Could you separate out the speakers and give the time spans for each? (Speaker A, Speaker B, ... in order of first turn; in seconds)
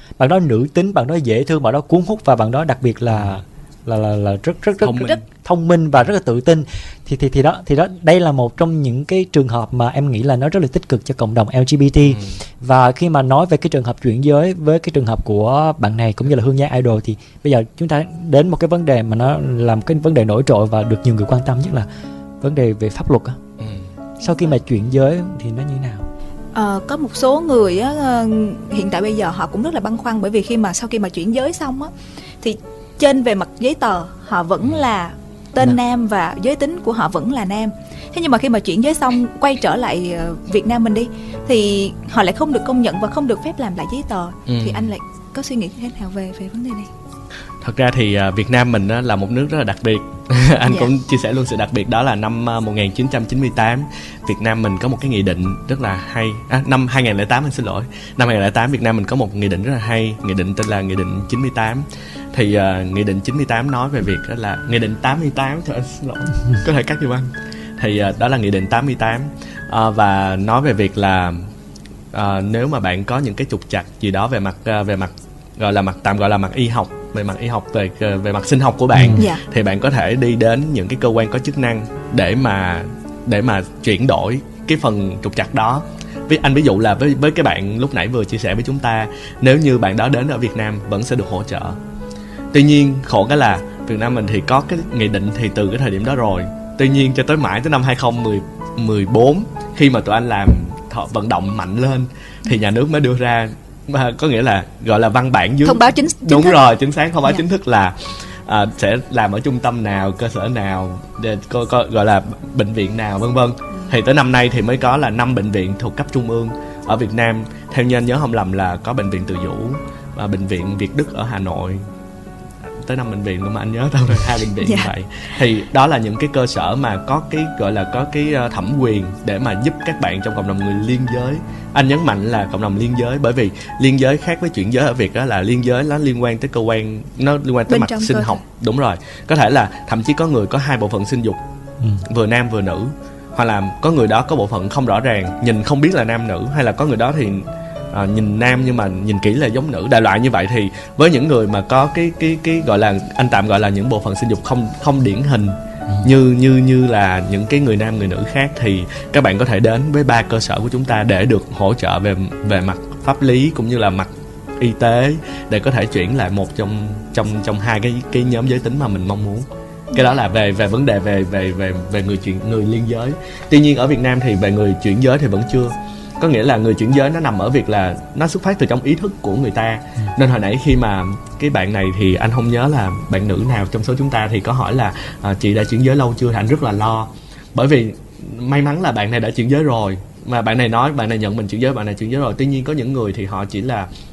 Speaker A: 0.2-21.9, 22.4-23.4, 24.2-26.1, 78.9-79.2
Speaker B: 4.8-5.2, 12.1-12.4, 23.6-23.9, 44.5-44.9, 47.6-71.5, 72.1-91.8, 92.5-121.8, 122.7-141.4, 142.0-193.9
Speaker C: 26.5-46.9, 79.2-79.4, 105.6-106.6, 124.6-124.9, 137.7-138.4, 169.9-170.2